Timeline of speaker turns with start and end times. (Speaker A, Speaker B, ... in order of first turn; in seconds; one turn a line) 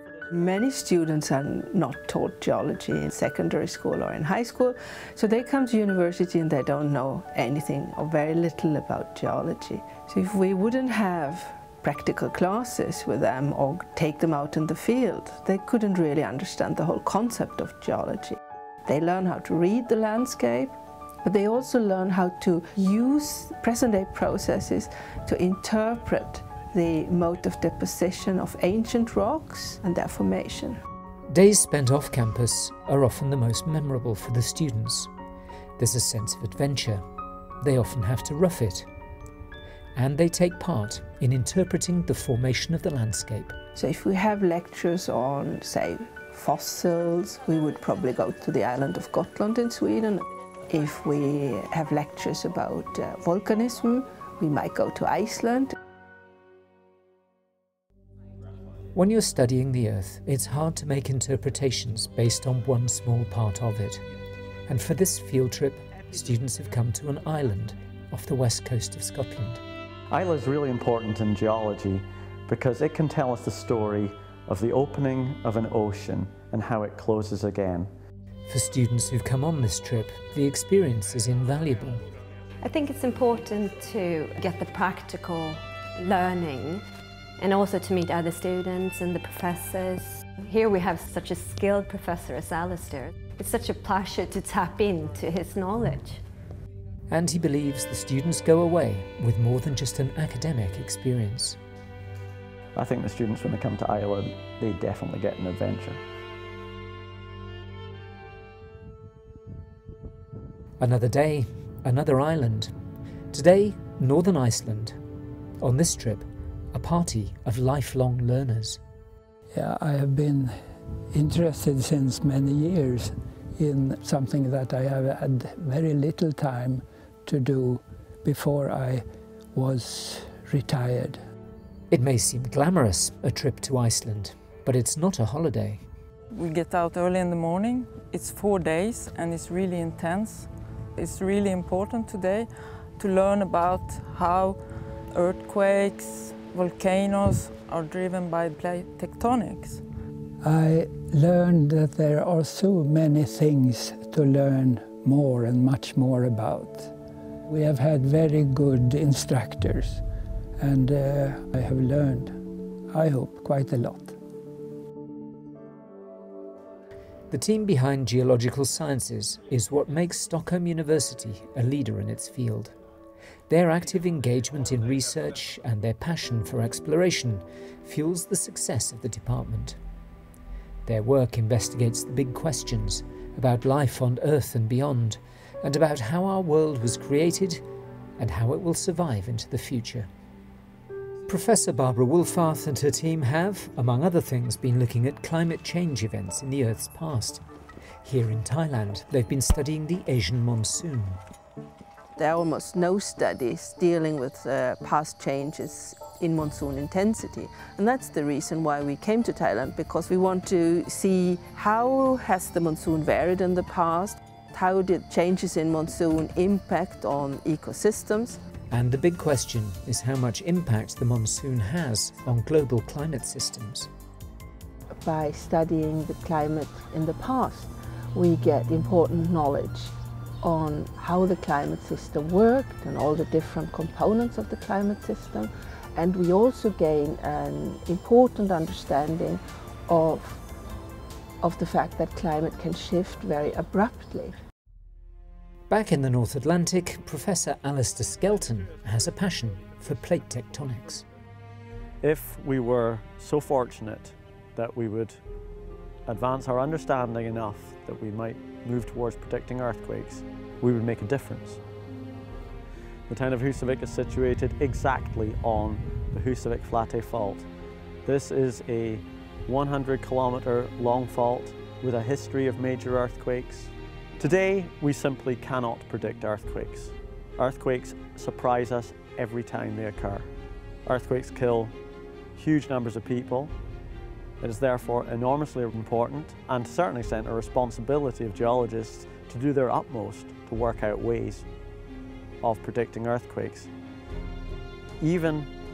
Speaker A: 0.3-30.8
Speaker B: 31.3-35.1
Speaker B: 35.8-37.0
Speaker B: 37.6-38.9
Speaker B: 40.0-43.5
Speaker A: 43.8-55.7
Speaker B: 58.9-64.0
Speaker B: 64.7-69.6
Speaker C: 70.1-77.9
Speaker B: 78.5-82.0
Speaker D: 82.6-86.8
Speaker D: 87.4-96.2
Speaker B: 97.1-101.6
Speaker C: 102.7-106.0
Speaker B: 110.8-112.7
Speaker B: 113.3-115.0
Speaker B: 115.6-118.8
Speaker E: 119.5-120.6
Speaker E: 121.1-131.2
Speaker B: 131.9-135.8
Speaker F: 136.3-149.8
Speaker E: 150.4-156.9
Speaker E: 157.5-160.0
Speaker E: 160.6-162.3
Speaker E: 162.9-164.1
Speaker B: 167.3-172.7
Speaker B: 173.5-179.8
Speaker B: 180.8-187.6
Speaker B: 188.2-190.1
Speaker B: 191.3-197.4
Speaker B: 198.0-201.2
Speaker A: 202.2-218.4
Speaker B: 218.7-223.9
Speaker A: 225.0-240.4
Speaker A: 241.4-244.3
Speaker B: 245.7-251.1
Speaker C: 252.0-255.2
Speaker C: 256.1-261.6
Speaker C: 263.1-267.5
Speaker C: 268.0-280.3
Speaker C: 280.9-281.8
Speaker C: 282.3-283.5
Speaker C: 284.4-291.5
Speaker C: 292.4-293.7
Speaker C: 295.0-295.5